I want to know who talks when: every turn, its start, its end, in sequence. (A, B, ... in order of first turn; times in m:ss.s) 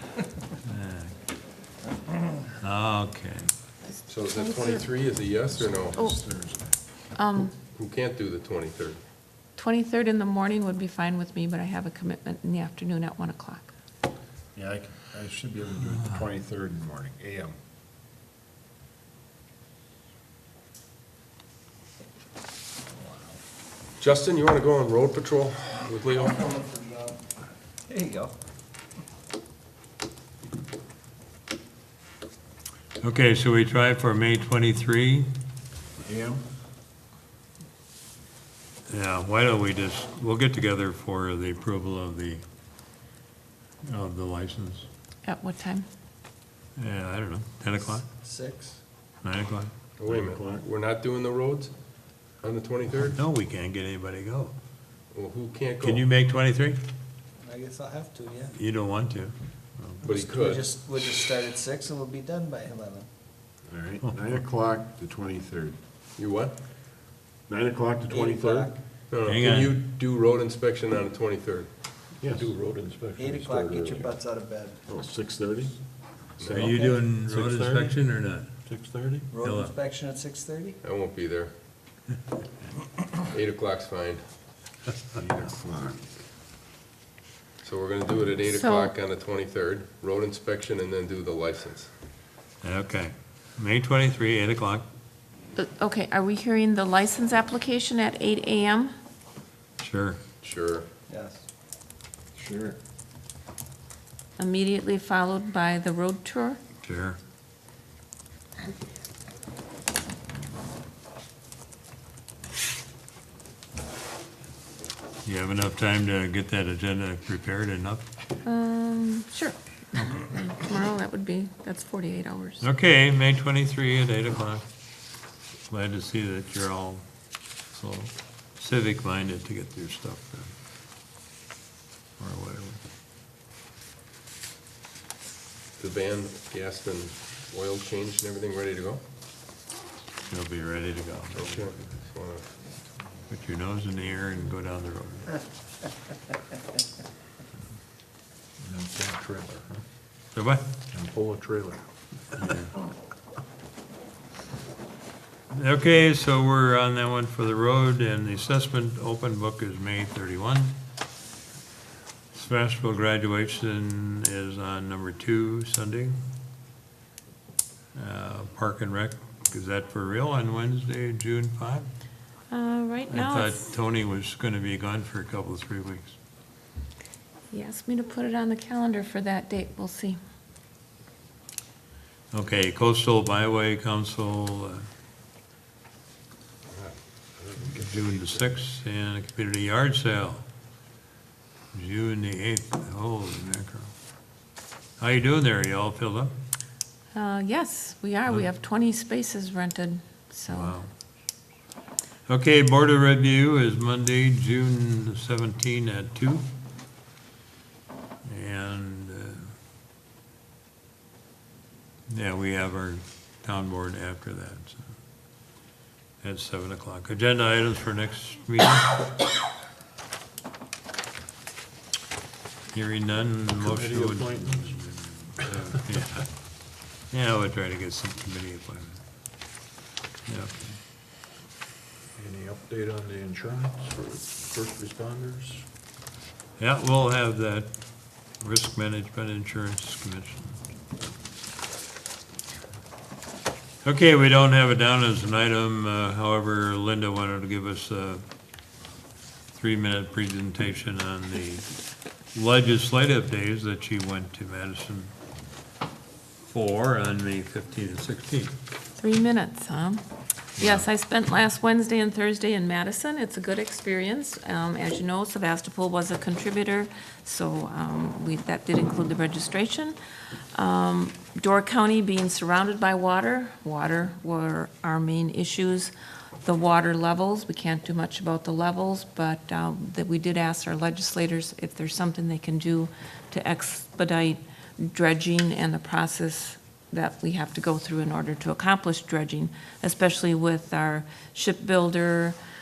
0:00.7-0:01.1 A
0:02.6-0:03.5 A
0:04.1-0:06.0 B
0:04.3-0:04.8 C
0:05.5-0:06.6 D
0:07.2-0:07.5 C
0:07.5-0:09.0 B
0:09.6-0:13.7 C
0:14.5-0:17.5 D
0:24.0-0:26.6 B
0:26.5-0:27.2 E
0:27.8-0:28.3 E
0:33.0-0:35.3 A
0:36.0-0:36.4 D
0:38.9-0:42.4 A
0:43.8-0:44.8 A
0:45.2-0:45.8 C
0:46.8-0:48.1 A
0:48.2-0:48.8 E
0:49.2-0:49.7 A
0:50.0-0:51.7 B
0:50.1-0:50.6 D
0:52.4-0:53.2 B
0:53.1-0:54.5 A
0:55.1-0:56.0 B
0:55.8-0:56.8 A
0:57.4-0:58.5 E
0:58.5-1:00.0 A
1:00.0-1:00.7 B
1:00.1-1:03.1 E
1:03.7-1:05.8 D
1:06.2-1:06.6 B
1:07.5-1:08.7 D
1:08.1-1:08.8 E
1:09.1-1:11.7 B
1:09.2-1:09.8 A
1:12.2-1:12.6 D
1:12.2-1:13.1 F
1:13.1-1:14.8 E
1:13.2-1:14.1 D
1:14.9-1:15.7 D
1:16.4-1:16.7 B
1:16.4-1:17.9 D
1:16.5-1:18.5 A
1:18.7-1:19.3 D
1:19.3-1:20.8 E
1:19.4-1:19.7 A
1:20.8-1:21.5 B
1:23.3-1:24.2 B
1:25.1-1:26.0 D
1:27.6-1:31.9 B
1:28.5-1:28.9 C
1:32.6-1:34.8 A
1:35.6-1:38.9 C
1:39.8-1:40.2 A
1:40.4-1:40.9 B
1:41.1-1:41.4 E
1:42.4-1:42.8 D
1:44.4-1:46.6 C
1:46.8-1:47.2 A
1:55.2-1:58.0 A
1:58.4-2:02.6 C
1:59.9-2:00.2 A
2:02.6-2:04.6 A
2:05.7-2:07.0 A
2:07.6-2:10.5 A
2:12.2-2:12.8 A
2:15.8-2:19.0 B
2:20.3-2:21.7 A
2:21.3-2:22.5 B
2:23.3-2:25.4 A
2:28.6-2:29.8 F
2:30.3-2:30.6 A
2:30.9-2:31.8 F
2:32.4-2:32.7 A
2:35.5-2:40.7 A
2:42.3-2:46.2 A
2:47.9-2:51.9 A
2:52.5-2:53.6 C
2:53.1-2:56.1 A
2:57.5-3:00.2 C
3:02.3-3:04.8 A
3:06.7-3:08.5 B
3:07.7-3:10.4 A
3:11.7-3:13.9 A
3:15.0-3:16.3 A
3:17.1-3:20.8 C
3:20.5-3:20.9 A
3:22.3-3:26.4 A
3:28.2-3:29.5 A
3:32.1-3:34.9 A
3:36.2-3:39.0 A
3:42.7-3:46.3 A
3:43.6-3:44.8 F
3:47.1-3:49.0 A
3:50.3-3:50.5 A
3:52.2-3:55.6 F
3:56.6-4:00.6 A
4:03.8-4:08.2 A
4:09.5-4:11.7 A
4:12.3-4:15.1 A
4:16.4-4:18.5 A
4:19.0-4:20.0 C
4:20.6-4:30.0 C
4:30.5-4:52.4 C